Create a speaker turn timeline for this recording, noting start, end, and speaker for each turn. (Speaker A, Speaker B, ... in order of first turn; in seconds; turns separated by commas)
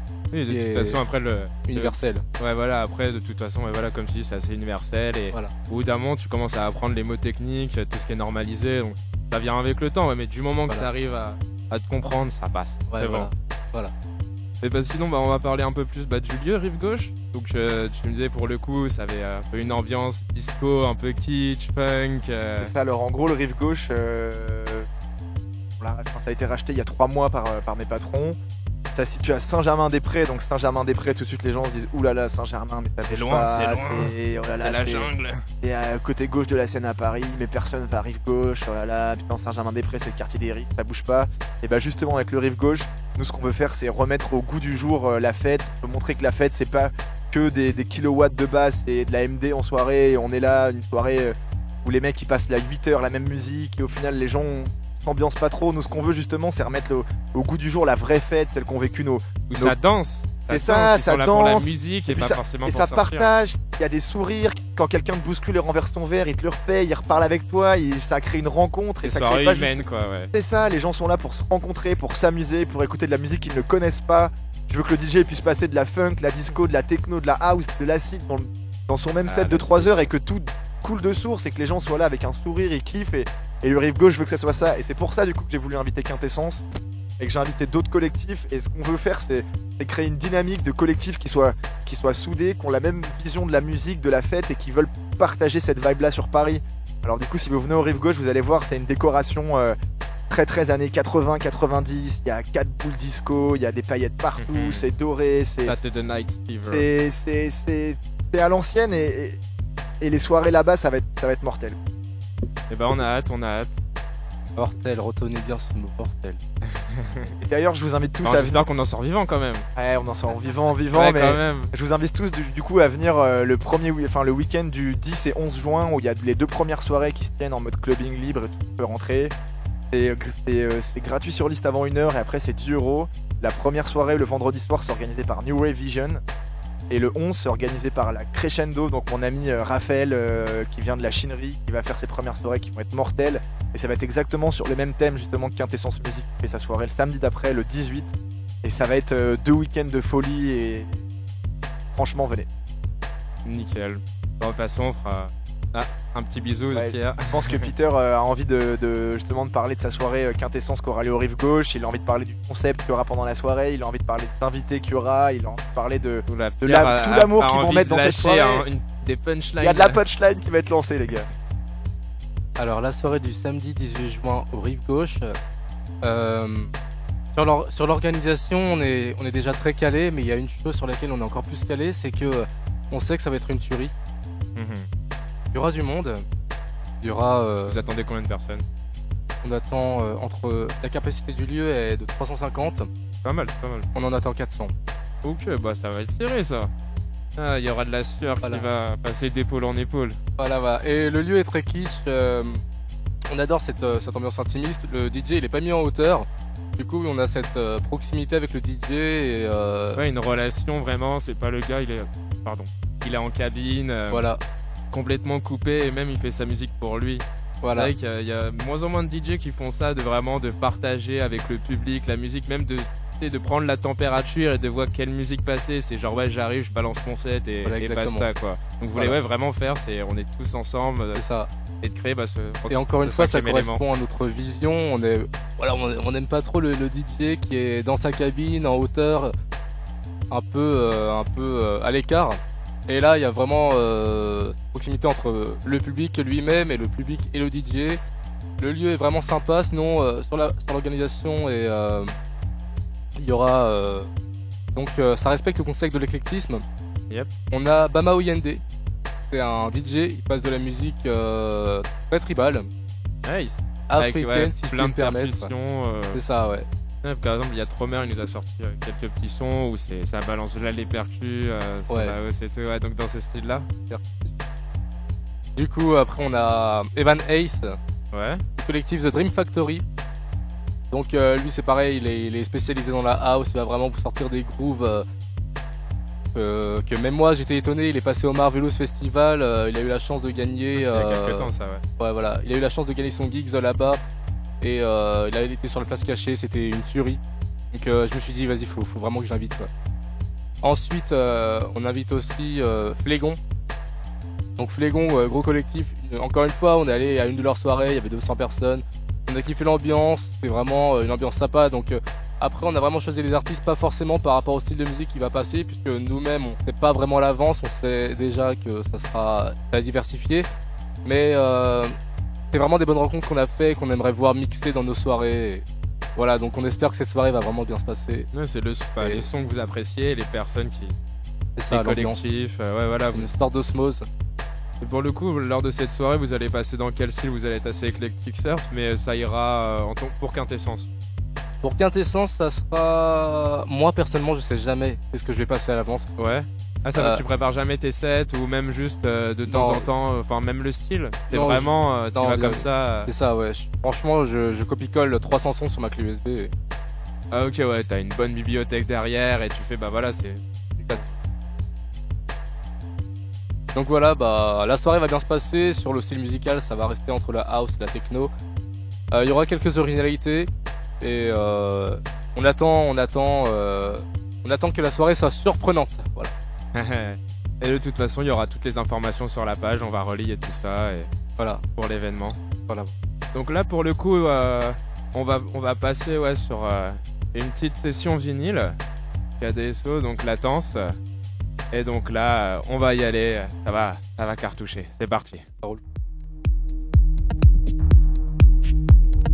Speaker A: 0.3-13.3, Speaker B: 0.5-1.0, Speaker B: 1.7-2.2, Speaker B: 12.9-13.9, Speaker A: 14.6-22.7, Speaker C: 22.6-24.9, Speaker C: 25.8-28.4, Speaker C: 28.9-35.1, Speaker A: 33.0-35.4, Speaker C: 35.6-59.8, Speaker A: 59.5-63.3, Speaker C: 60.5-86.7, Speaker A: 69.0-70.3, Speaker A: 79.2-79.9, Speaker C: 87.2-99.8, Speaker C: 100.3-105.8, Speaker A: 104.4-104.9, Speaker A: 105.7-106.9, Speaker C: 106.7-109.4, Speaker C: 110.0-111.8, Speaker A: 112.7-113.8, Speaker B: 114.6-116.4, Speaker A: 116.7-117.3, Speaker C: 117.4-118.7, Speaker A: 118.2-119.7, Speaker C: 119.8-129.3, Speaker A: 120.5-121.7, Speaker C: 129.9-136.2, Speaker C: 136.9-151.0, Speaker C: 151.9-152.5, Speaker A: 153.4-157.7, Speaker C: 156.7-168.7, Speaker A: 166.3-170.0, Speaker C: 169.6-171.3, Speaker B: 172.6-175.4, Speaker B: 176.0-176.7, Speaker B: 177.3-183.9, Speaker A: 184.6-184.9, Speaker B: 185.5-186.2, Speaker B: 187.0-187.8, Speaker A: 187.7-188.7, Speaker B: 189.4-192.9, Speaker A: 193.2-193.9, Speaker B: 193.9-194.7, Speaker A: 195.2-196.7, Speaker A: 197.4-200.2, Speaker B: 198.4-198.7, Speaker B: 200.4-202.6, Speaker B: 203.3-210.0, Speaker A: 210.0-214.3, Speaker B: 214.1-214.4, Speaker A: 214.9-231.2, Speaker B: 217.6-217.9, Speaker B: 227.6-228.3, Speaker B: 231.2-231.5, Speaker A: 231.8-233.8, Speaker B: 232.7-239.3, Speaker B: 240.3-248.0, Speaker B: 248.6-252.1, Speaker B: 253.2-254.1, Speaker B: 254.8-256.6, Speaker B: 257.5-258.6, Speaker B: 259.3-262.7, Speaker A: 263.2-266.2, Speaker B: 263.9-265.5, Speaker B: 266.1-266.7, Speaker A: 267.0-273.7, Speaker B: 271.9-272.2, Speaker B: 273.9-274.3, Speaker B: 275.6-277.8, Speaker A: 278.1-278.4, Speaker B: 278.6-279.8, Speaker B: 280.9-285.1, Speaker B: 286.3-294.0, Speaker A: 290.8-291.8, Speaker B: 294.6-297.2, Speaker B: 297.7-299.7, Speaker B: 300.6-303.4, Speaker B: 304.6-320.5, Speaker B: 321.1-322.0, Speaker B: 322.5-328.3, Speaker A: 328.3-331.0, Speaker B: 329.0-329.3, Speaker B: 331.6-332.3, Speaker A: 331.7-333.3, Speaker B: 333.1-334.1, Speaker A: 334.8-340.9, Speaker B: 341.6-346.1, Speaker A: 346.2-353.1, Speaker B: 347.0-347.2, Speaker B: 349.5-349.9, Speaker B: 351.3-356.5, Speaker A: 357.3-361.2, Speaker B: 363.7-368.3, Speaker B: 369.1-376.3, Speaker A: 376.7-381.1, Speaker B: 381.4-381.6, Speaker A: 381.8-382.4, Speaker B: 382.7-382.9, Speaker A: 383.3-388.8, Speaker A: 389.4-391.0, Speaker A: 391.7-395.4